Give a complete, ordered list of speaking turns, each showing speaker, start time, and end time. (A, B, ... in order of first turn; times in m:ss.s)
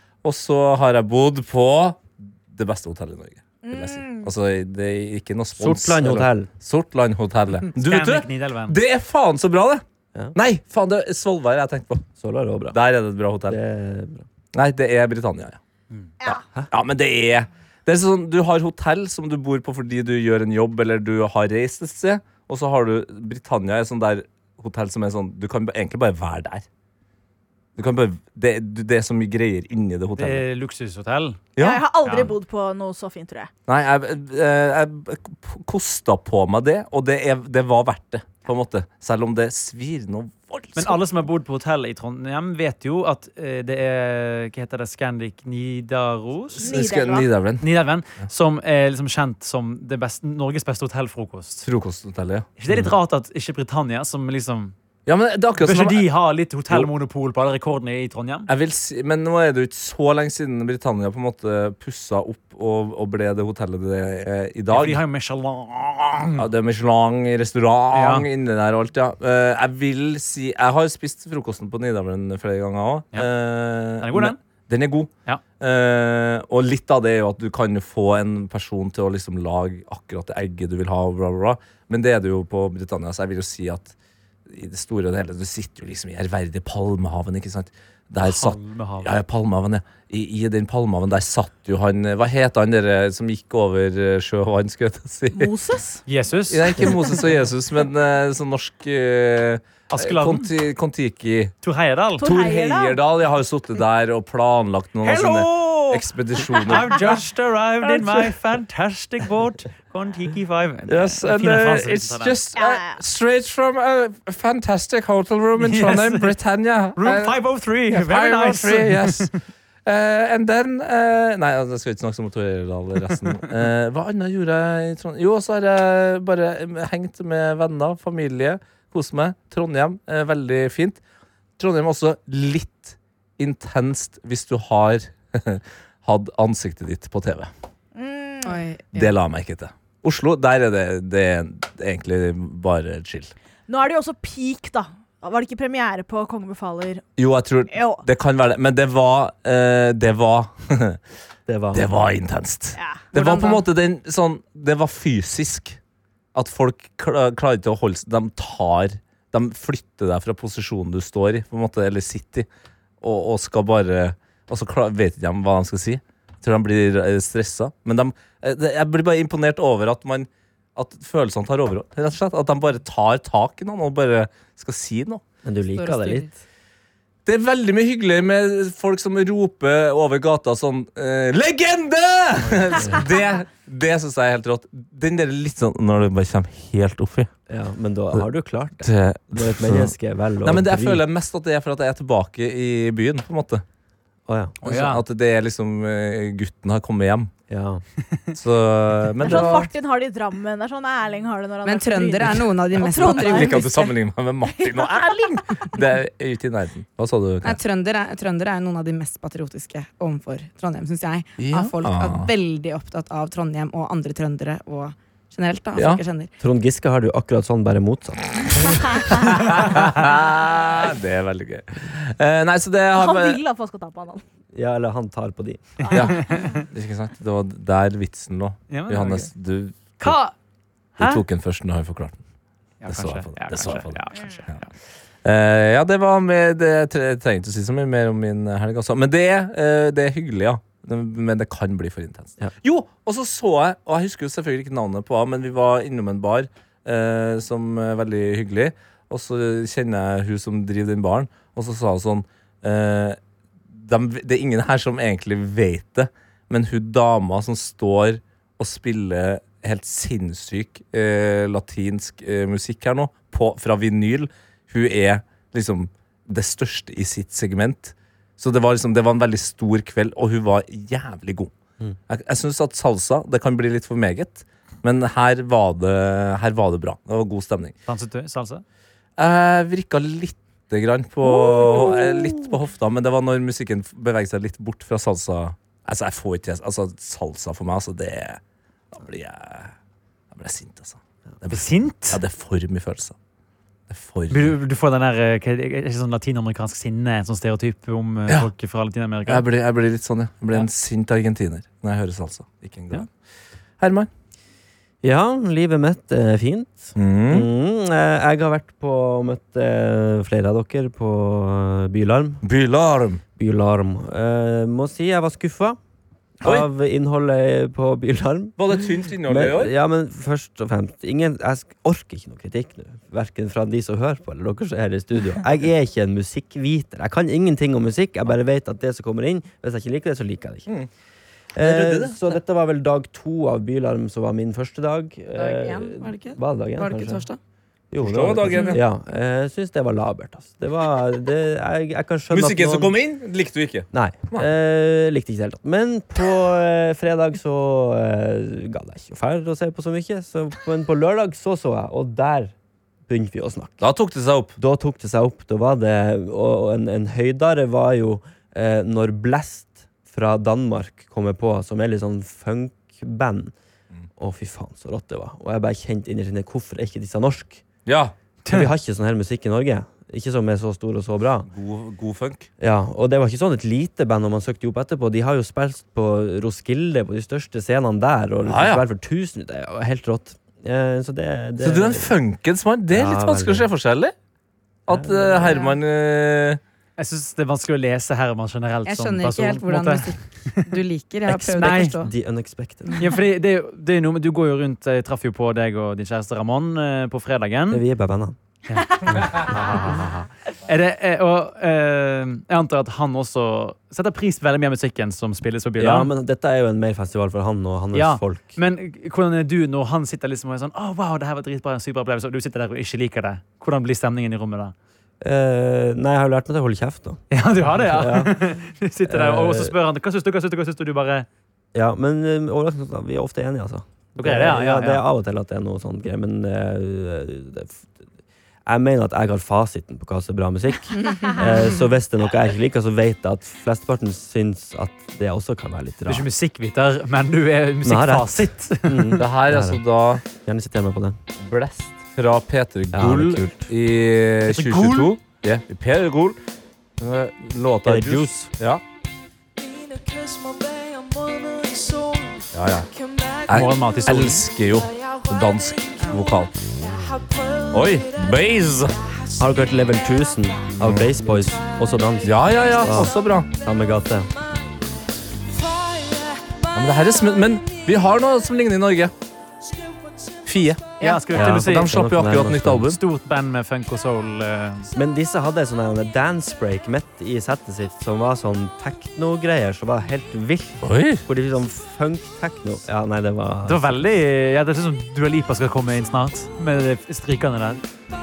0:00.2-0:09.8 A
0:03.6-0:04.3 B
0:05.6-0:06.5 C
0:07.7-0:08.8 D
0:10.3-0:12.1 A
0:12.2-0:12.8 C
0:12.7-0:13.6 A
0:13.5-0:14.2 C
0:14.5-0:15.6 A
0:16.3-0:26.6 A
0:27.8-0:30.4 A
0:30.2-0:31.4 D
0:31.6-0:31.8 A
0:31.6-0:33.5 B
0:32.0-0:32.3 D
0:33.7-0:41.0 A
0:40.8-0:46.7 D
0:46.6-0:47.6 A
0:46.6-0:47.3 B
0:47.6-0:51.7 D
0:51.6-0:52.4 A
0:52.6-0:54.7 D
0:55.0-0:56.1 A
0:55.6-0:58.5 D
0:58.5-1:05.0 A
1:04.7-1:06.5 D
1:06.4-1:23.9 A
1:07.9-1:08.2 D
1:14.0-1:14.4 D
1:24.5-1:35.5 A
1:28.2-1:29.1 D
1:35.3-1:36.0 B
1:36.1-1:37.1 D
1:36.5-1:41.5 A
1:39.9-1:40.5 D
1:41.6-1:42.2 D
1:42.2-1:47.1 A
1:42.2-1:43.0 B
1:45.0-1:46.5 B
1:46.7-1:52.4 D
1:47.9-1:48.3 A
1:50.9-1:57.4 A
1:52.6-1:53.0 B
1:55.6-1:56.3 D
1:57.0-1:59.4 D
1:57.9-1:59.3 A
1:59.8-2:11.0 A
2:11.6-2:17.5 A
2:17.9-2:18.6 B
2:18.4-2:19.1 E
2:18.9-2:23.3 A
2:23.7-2:27.0 B
2:27.2-2:31.0 A
2:27.7-2:28.0 B
2:31.5-2:31.9 C
2:31.7-2:35.8 A
2:32.8-2:33.1 B
2:33.1-2:33.6 E
2:36.3-2:42.5 A
2:43.0-2:55.2 A
2:55.4-2:56.3 C
2:55.7-2:56.3 E
2:57.2-3:07.3 A
3:07.5-3:11.0 C
3:08.8-3:09.9 A
3:10.4-3:13.6 A
3:14.3-3:14.6 C
3:14.6-3:15.0 D
3:14.6-3:17.3 A
3:17.5-3:17.8 C
3:18.3-3:19.7 A
3:19.2-3:23.9 B
3:21.6-3:23.8 E
3:23.0-3:27.6 A
3:24.5-3:25.7 B
3:27.4-3:36.3 E
3:31.4-3:32.3 A
3:35.7-3:36.0 A
3:36.4-3:38.5 C
3:38.5-3:43.4 A
3:43.0-3:44.2 B
3:44.5-3:45.7 C
3:45.8-3:46.3 B
3:45.9-3:46.6 D
3:45.9-3:50.2 A
3:48.7-3:49.3 D
3:50.0-3:50.3 D
3:51.0-3:52.2 A
3:51.0-3:51.2 D
3:52.8-3:54.6 D
3:52.9-3:54.6 A
3:55.2-4:13.2 A
4:13.7-4:31.5 A
4:32.1-4:37.7 A
4:37.8-4:38.6 D
4:39.2-4:48.4 A
4:41.2-4:42.5 C
4:48.9-4:49.7 A
4:50.3-4:53.1 A
4:51.5-4:52.2 D
4:53.9-4:54.5 A
4:54.3-4:59.4 D
4:59.2-5:03.1 A
5:03.8-5:04.1 A
5:05.0-5:12.4 C
5:06.9-5:07.5 A
5:12.4-5:13.2 A
5:13.4-5:15.8 C
5:16.4-5:30.7 C
5:16.4-5:16.7 A
5:18.6-5:19.7 A
5:31.5-5:37.2 C
5:31.6-5:32.2 A
5:35.4-5:37.4 E
5:37.9-5:42.9 C
5:38.0-5:38.8 A
5:38.5-5:38.8 E
5:42.3-5:44.5 A
5:43.9-5:52.5 C
5:53.1-5:53.8 C
5:53.8-5:54.6 A
5:54.6-6:03.5 C
6:04.2-6:07.6 C
6:07.8-6:08.1 A
6:08.5-6:11.5 C
6:11.4-6:12.5 A
6:12.6-6:22.1 C
6:18.4-6:18.8 A
6:21.6-6:24.1 A
6:22.9-6:23.7 C
6:24.9-6:26.6 A
6:24.9-6:25.6 C
6:27.0-6:30.6 D
6:28.8-6:32.1 E
6:31.3-6:32.0 D
6:31.7-6:33.0 C
6:33.0-6:37.8 D
6:37.7-6:38.4 C
6:38.7-6:46.1 D
6:45.8-6:48.6 C
6:47.9-6:54.7 D
6:55.2-6:59.7 C
6:57.3-7:01.3 D
7:01.7-7:08.0 C
7:04.1-7:05.0 D
7:08.6-7:16.3 C
7:11.0-7:11.8 E
7:16.1-7:19.2 D
7:17.8-7:21.2 C
7:19.2-7:20.2 A
7:21.4-7:26.4 A
7:22.9-7:23.7 C
7:24.5-7:25.1 D
7:27.0-7:28.8 A
7:27.8-7:28.5 C
7:32.5-7:32.9 A
7:33.5-7:36.9 A
7:33.5-7:34.5 D
7:37.6-7:39.0 A
7:39.4-7:44.3 C
7:40.8-7:41.2 A
7:42.2-7:43.5 A
7:46.7-7:49.1 A
7:50.4-7:53.0 A
7:51.0-7:51.3 E
7:51.0-7:51.9 D
7:51.3-7:52.9 C
7:52.8-7:54.9 D
7:54.9-8:04.0 C
8:00.8-8:01.2 A
8:03.6-8:07.8 D